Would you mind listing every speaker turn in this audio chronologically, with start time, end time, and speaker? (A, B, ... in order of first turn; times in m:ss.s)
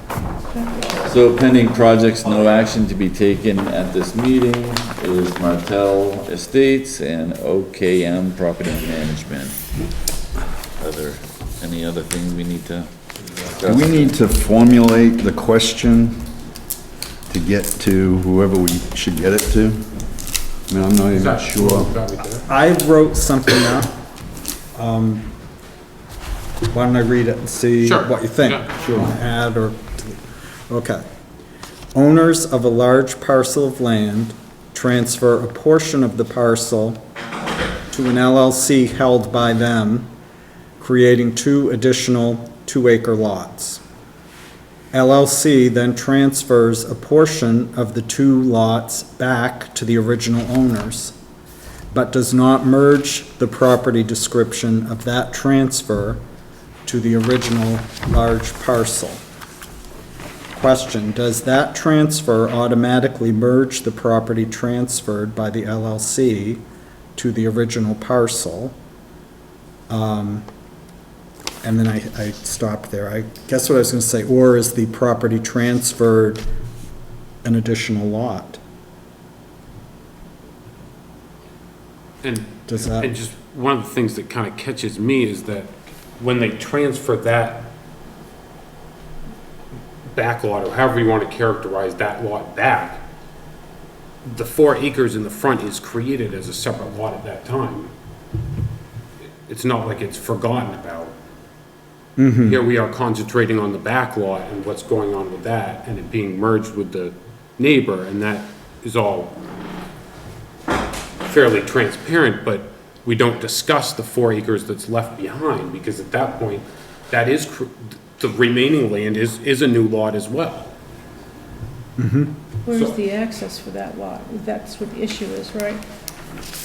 0:00.5-0:01.1 A
0:01.0-0:09.5 B
0:10.8-0:12.9 B
0:13.6-0:14.1 B
0:13.6-0:16.3 C
0:17.3-0:19.8 C
0:20.7-0:21.9 C
0:21.1-0:22.5 D
0:22.5-0:23.9 E
0:24.8-0:25.3 E
0:26.7-0:30.1 E
0:27.8-0:28.7 D
0:30.7-0:31.0 E
0:31.9-0:37.0 E
0:37.9-0:40.1 E
0:40.8-0:43.8 E
0:44.9-0:51.1 E
0:51.9-0:56.2 E
0:56.8-0:59.2 E
1:00.5-1:06.6 E
1:07.1-1:08.7 E
1:09.9-1:10.4 E
1:11.6-1:16.4 E
1:17.4-1:18.6 E
1:22.2-1:27.7 D
1:22.7-1:23.1 E
1:30.1-1:33.0 D
1:34.2-1:37.9 D
1:39.5-1:41.2 D
1:42.2-1:42.6 E
1:42.4-1:49.4 D
1:51.3-2:00.7 D
2:02.0-2:02.3 E
2:02.6-2:05.8 A
2:02.7-2:03.0 D